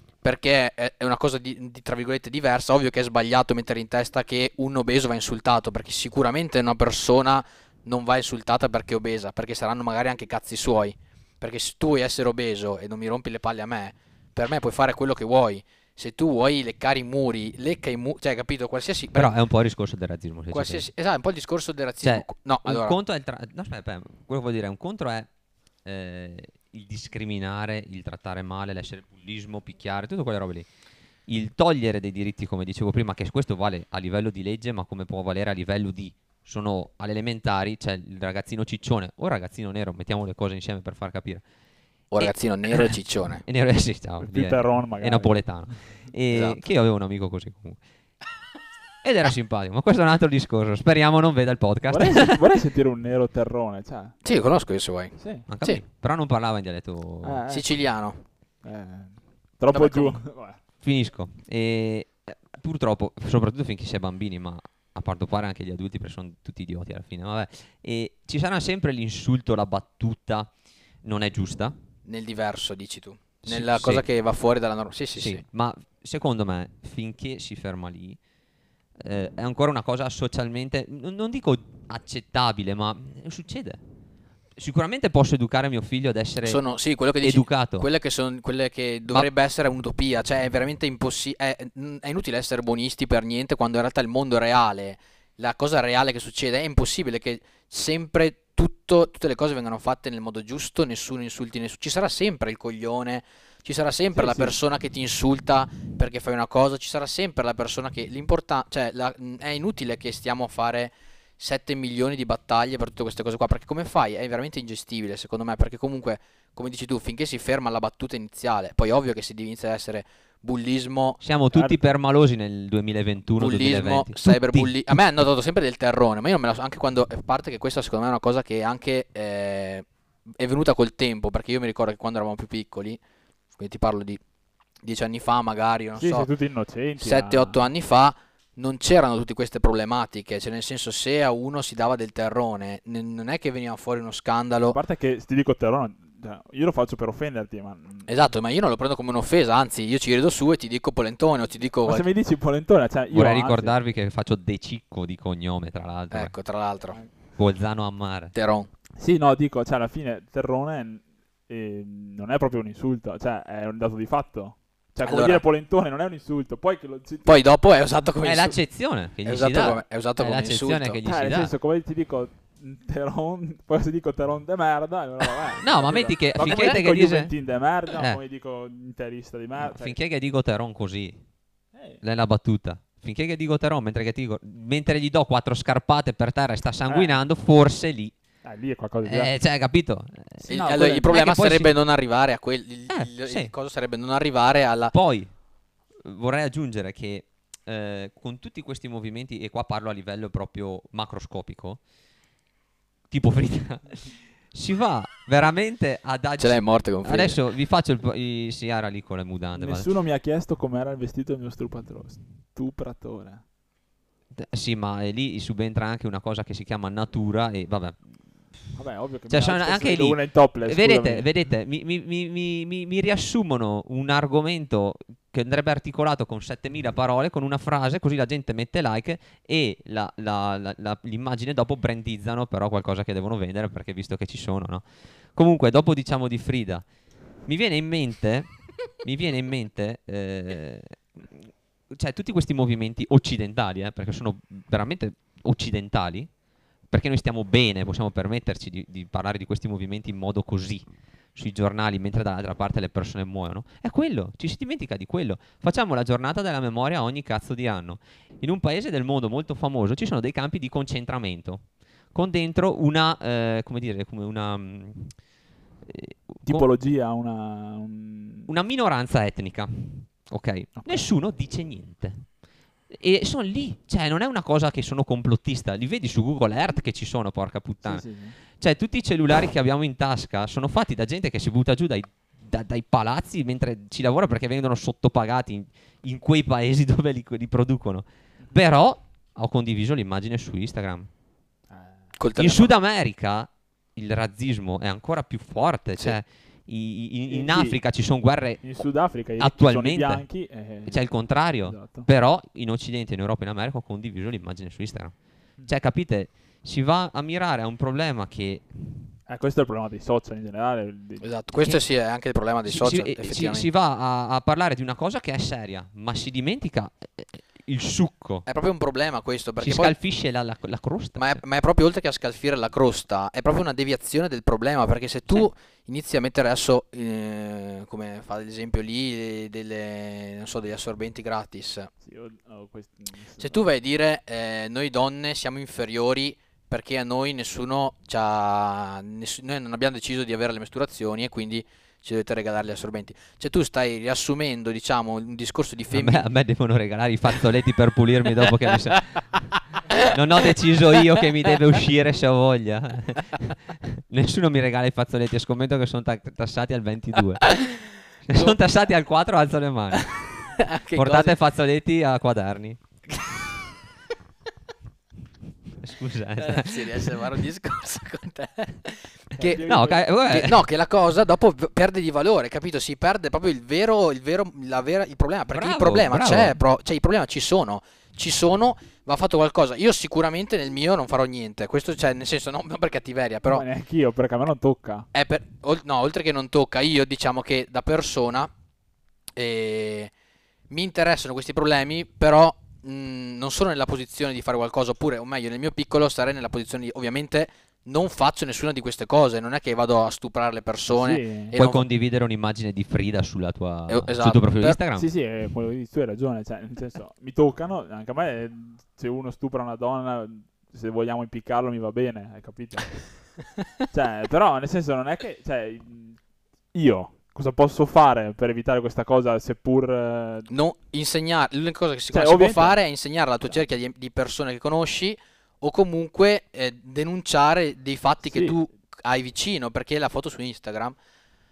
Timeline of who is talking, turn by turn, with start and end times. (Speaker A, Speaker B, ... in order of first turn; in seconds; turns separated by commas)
Speaker A: 0.2-19.3, Speaker B: 19.1-20.9, Speaker A: 20.5-23.0, Speaker B: 22.0-25.3, Speaker B: 25.8-30.7, Speaker B: 31.3-41.4, Speaker A: 42.1-43.4, Speaker B: 42.2-47.8, Speaker C: 44.2-45.4, Speaker A: 46.3-46.6, Speaker B: 49.0-52.4, Speaker C: 51.9-54.2, Speaker A: 54.2-55.8, Speaker C: 55.2-55.5, Speaker B: 55.5-57.4, Speaker C: 57.2-57.7, Speaker A: 57.5-58.2, Speaker C: 58.6-60.6, Speaker A: 59.7-60.2, Speaker B: 60.8-70.5, Speaker B: 71.0-71.8, Speaker A: 72.1-75.4, Speaker B: 73.4-74.0, Speaker B: 75.2-78.2, Speaker B: 79.0-83.8, Speaker B: 84.6-86.6, Speaker A: 86.4-121.2, Speaker B: 87.2-87.9, Speaker C: 104.1-104.6, Speaker B: 121.2-125.0, Speaker A: 123.4-129.8, Speaker A: 130.4-133.0, Speaker A: 133.6-134.2, Speaker A: 134.8-136.3, Speaker C: 136.0-137.6, Speaker A: 137.0-144.8, Speaker C: 144.7-148.1, Speaker A: 148.1-152.1, Speaker C: 151.8-153.7, Speaker B: 153.1-156.3, Speaker A: 156.1-157.0, Speaker B: 157.4-158.3, Speaker A: 158.3-158.7, Speaker C: 159.0-167.5, Speaker A: 165.1-165.4, Speaker A: 167.3-168.6, Speaker B: 168.2-171.5, Speaker A: 169.2-171.0, Speaker C: 171.1-180.0, Speaker B: 175.6-177.3, Speaker A: 176.4-176.8, Speaker B: 177.9-178.2, Speaker B: 179.6-181.2, Speaker C: 181.8-182.0, Speaker B: 182.0-188.1, Speaker C: 186.9-187.2, Speaker C: 188.4-189.3, Speaker B: 189.1-190.5, Speaker C: 190.4-191.1, Speaker A: 190.5-194.9, Speaker B: 191.1-191.7, Speaker B: 192.9-193.5, Speaker B: 194.9-195.3, Speaker B: 196.0-201.8, Speaker B: 203.1-209.9, Speaker A: 206.4-207.4, Speaker C: 209.6-213.4, Speaker B: 214.3-218.0, Speaker C: 218.8-221.3, Speaker B: 219.3-234.8, Speaker B: 235.3-236.8, Speaker B: 237.4-246.3, Speaker B: 246.9-265.1, Speaker B: 265.8-266.7, Speaker C: 266.4-268.5, Speaker B: 268.5-272.3, Speaker C: 270.8-271.1, Speaker B: 272.9-278.0, Speaker C: 277.8-278.4, Speaker B: 278.6-291.1, Speaker C: 291.7-292.0, Speaker A: 292.2-292.7, Speaker B: 292.4-298.6, Speaker C: 297.3-297.8, Speaker C: 298.6-301.0, Speaker B: 299.4-300.2, Speaker B: 300.9-305.1, Speaker C: 301.6-302.1, Speaker B: 305.7-309.1, Speaker C: 309.3-311.2, Speaker A: 311.2-313.7, Speaker B: 312.7-318.5, Speaker A: 318.5-319.9, Speaker B: 319.6-321.4, Speaker A: 321.2-331.9, Speaker C: 332.0-333.7, Speaker A: 333.4-346.2, Speaker B: 345.9-349.4, Speaker A: 348.4-349.0, Speaker B: 350.0-362.8, Speaker A: 358.3-358.6, Speaker A: 360.6-361.3, Speaker B: 365.8-367.4, Speaker A: 366.4-369.6, Speaker C: 369.4-370.1, Speaker B: 369.6-370.6, Speaker A: 370.3-383.6, Speaker B: 375.5-376.6, Speaker C: 383.5-385.1, Speaker A: 385.1-388.5, Speaker A: 389.4-390.1, Speaker A: 390.7-401.9, Speaker C: 400.9-401.5, Speaker B: 401.6-405.1, Speaker A: 403.9-404.8, Speaker C: 404.9-413.1, Speaker C: 413.9-416.2, Speaker C: 416.7-420.5, Speaker A: 420.5-431.0, Speaker C: 422.1-422.8, Speaker C: 428.3-428.6